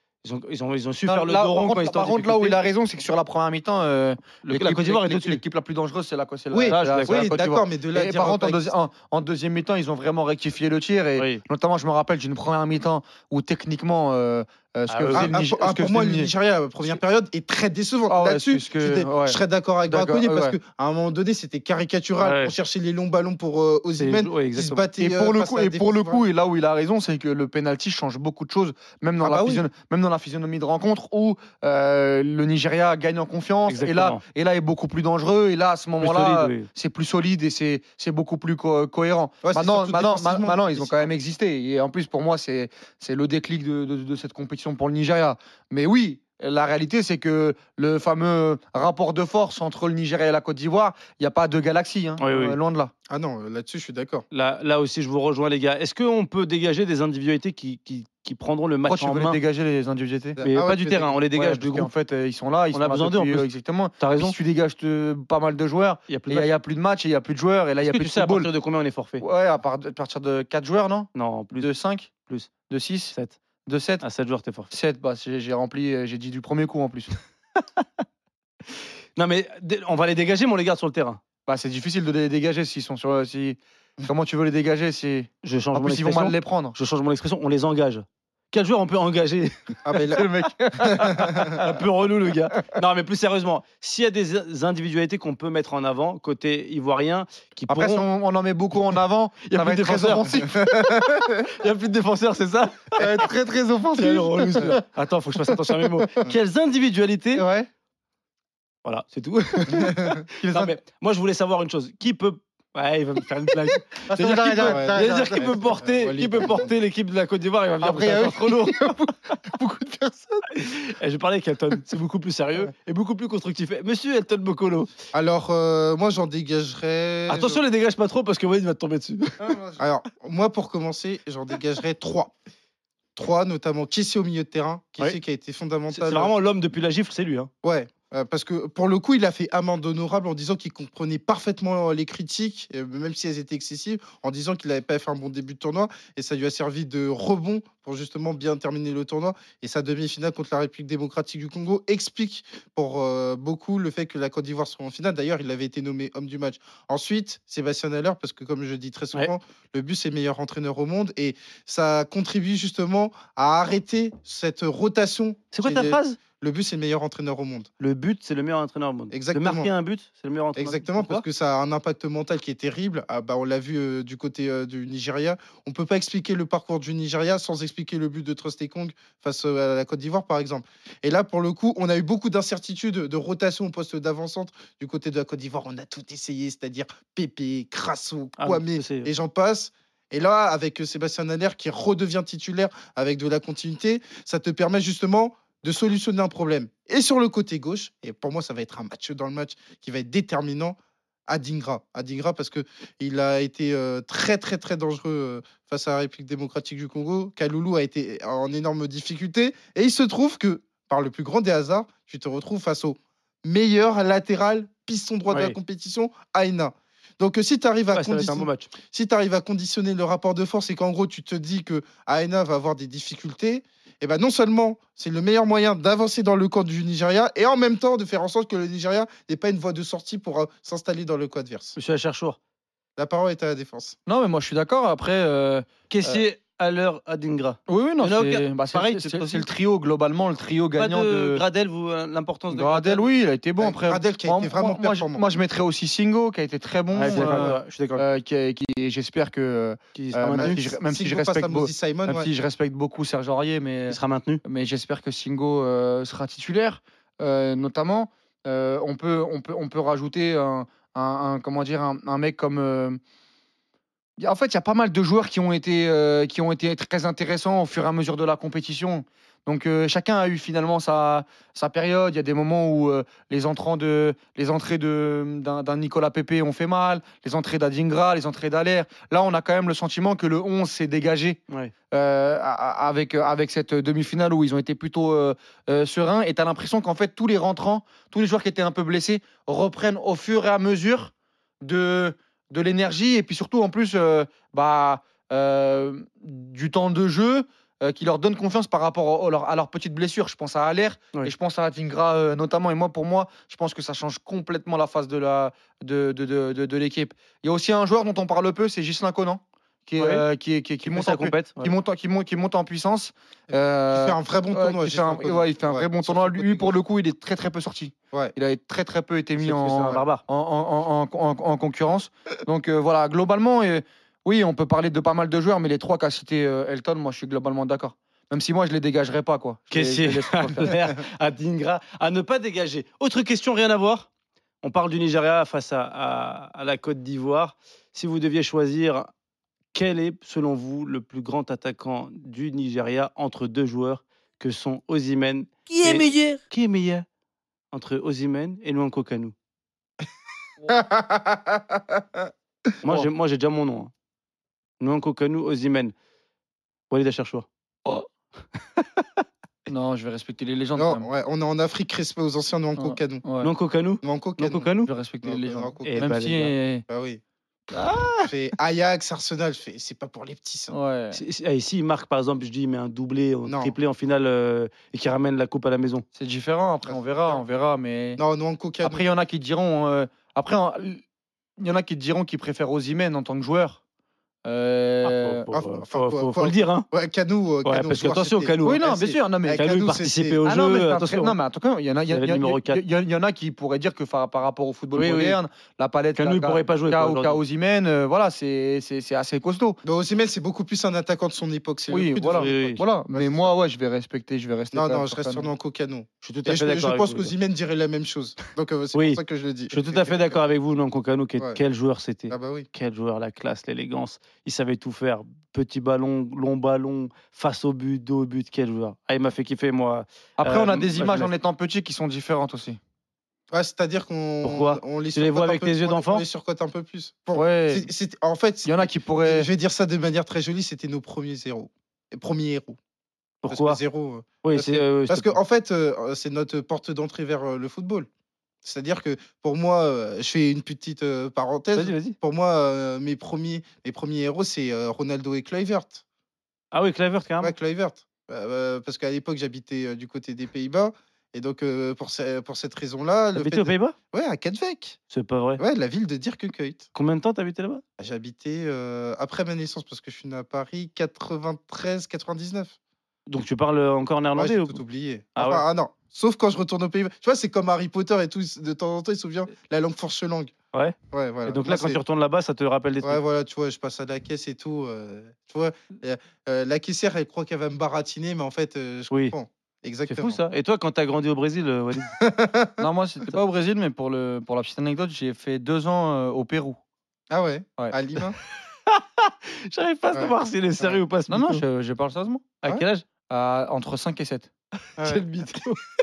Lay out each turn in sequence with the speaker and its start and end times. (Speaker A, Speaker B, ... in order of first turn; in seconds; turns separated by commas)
Speaker A: 0.2-2.6, Speaker B: 1.1-16.3, Speaker A: 4.4-5.4, Speaker C: 6.5-8.7, Speaker A: 6.7-7.3, Speaker A: 11.2-11.4, Speaker A: 14.9-15.3, Speaker C: 15.1-26.2, Speaker B: 18.1-20.6, Speaker A: 22.2-22.6, Speaker A: 24.0-24.9, Speaker B: 25.0-52.9, Speaker C: 29.2-29.6, Speaker A: 33.7-34.2, Speaker A: 36.0-36.7, Speaker C: 39.4-41.1, Speaker A: 52.2-52.6, Speaker C: 53.1-54.2, Speaker A: 54.3-59.4, Speaker B: 58.9-60.4, Speaker C: 60.4-61.1, Speaker A: 60.5-61.9, Speaker B: 61.3-68.5, Speaker A: 62.7-63.5, Speaker A: 64.0-64.4, Speaker A: 66.1-66.5, Speaker A: 67.8-69.2, Speaker B: 69.2-72.1, Speaker A: 71.2-71.7, Speaker B: 72.7-73.2, Speaker B: 73.7-74.0, Speaker A: 74.0-74.7, Speaker B: 74.7-77.1, Speaker A: 79.2-81.2, Speaker B: 81.5-86.8, Speaker A: 85.4-89.8, Speaker C: 89.8-90.3, Speaker B: 90.1-91.8, Speaker C: 90.8-91.6, Speaker A: 91.0-98.0, Speaker B: 97.7-101.3, Speaker A: 99.5-100.7, Speaker C: 100.5-101.3, Speaker A: 101.4-103.2, Speaker B: 103.0-104.8, Speaker A: 104.0-107.5, Speaker B: 107.3-107.7, Speaker A: 108.8-118.8, Speaker B: 109.7-110.7, Speaker C: 110.0-110.2, Speaker B: 114.1-115.6, Speaker C: 114.6-116.7, Speaker B: 117.8-120.6, Speaker A: 120.5-124.9, Speaker C: 125.1-127.6, Speaker A: 127.3-129.5, Speaker B: 129.4-129.8, Speaker C: 129.8-132.3, Speaker C: 133.2-136.3, Speaker A: 135.9-137.5, Speaker C: 137.6-167.7, Speaker A: 165.5-166.2, Speaker A: 167.8-171.2, Speaker C: 169.1-169.7, Speaker C: 170.6-200.8, Speaker A: 188.4-189.1, Speaker C: 201.3-231.8, Speaker A: 215.3-215.6, Speaker A: 217.9-218.7, Speaker A: 231.8-232.4, Speaker C: 233.0-234.0, Speaker B: 234.1-236.2, Speaker A: 235.9-239.5, Speaker B: 237.7-241.4, Speaker A: 240.8-243.1, Speaker B: 242.5-263.0, Speaker C: 243.6-245.2, Speaker A: 246.9-248.1, Speaker C: 247.1-247.6, Speaker A: 249.9-250.6, Speaker C: 250.4-252.3, Speaker A: 253.9-254.4, Speaker B: 264.2-281.4, Speaker B: 281.9-330.7, Speaker A: 310.0-310.2, Speaker A: 310.8-311.7, Speaker C: 313.9-316.7, Speaker A: 319.4-320.2, Speaker A: 329.7-334.1, Speaker A: 334.6-339.1, Speaker A: 339.7-347.1, Speaker B: 345.7-346.4, Speaker A: 347.7-349.4, Speaker C: 350.7-352.3, Speaker A: 352.8-353.9, Speaker A: 354.8-355.9, Speaker A: 356.9-357.5, Speaker B: 359.7-361.1, Speaker C: 360.8-363.2, Speaker B: 362.8-363.5, Speaker A: 363.4-364.9, Speaker C: 364.0-364.7, Speaker B: 364.9-366.9, Speaker C: 365.2-366.1, Speaker A: 365.9-366.5, Speaker C: 366.9-367.2, Speaker B: 367.7-368.1, Speaker C: 368.3-370.8, Speaker B: 370.7-371.2, Speaker A: 371.1-376.1, Speaker C: 373.5-373.7, Speaker B: 376.1-378.2, Speaker C: 376.9-377.4, Speaker C: 378.2-379.0, Speaker B: 378.8-381.0, Speaker B: 381.6-383.8, Speaker B: 384.4-385.5, Speaker A: 385.0-386.9, Speaker C: 385.5-390.4, Speaker A: 387.6-391.4, Speaker B: 388.6-389.9, Speaker B: 390.4-399.8, Speaker A: 392.1-392.8, Speaker A: 394.9-395.4, Speaker A: 396.2-397.4, Speaker C: 399.8-403.5, Speaker B: 401.9-405.5, Speaker A: 402.3-402.8, Speaker C: 404.7-410.4, Speaker A: 406.2-407.3, Speaker A: 408.9-421.3, Speaker C: 412.3-412.7, Speaker B: 420.4-422.8, Speaker C: 423.5-432.8, Speaker A: 424.4-426.2, Speaker B: 427.3-427.9, Speaker B: 428.6-429.5, Speaker A: 433.4-433.8, Speaker C: 433.5-438.1, Speaker A: 434.4-435.4, Speaker C: 438.6-446.0, Speaker A: 441.8-442.1, Speaker A: 446.7-447.5, Speaker C: 447.4-455.0, Speaker A: 453.4-453.9, Speaker A: 455.1-455.6, Speaker C: 455.6-456.9, Speaker A: 456.9-457.8, Speaker C: 458.0-462.8, Speaker A: 463.3-464.8, Speaker C: 464.4-470.5, Speaker A: 465.4-465.6, Speaker C: 471.1-472.0, Speaker A: 471.5-473.2, Speaker C: 473.0-480.4, Speaker A: 479.1-479.4, Speaker A: 480.1-482.1, Speaker C: 482.1-482.8, Speaker B: 482.8-486.8, Speaker C: 487.3-488.4, Speaker A: 488.9-491.6, Speaker C: 490.1-491.0, Speaker B: 491.3-492.5, Speaker A: 492.6-493.1, Speaker B: 493.3-494.5, Speaker A: 494.9-495.9, Speaker C: 495.0-495.5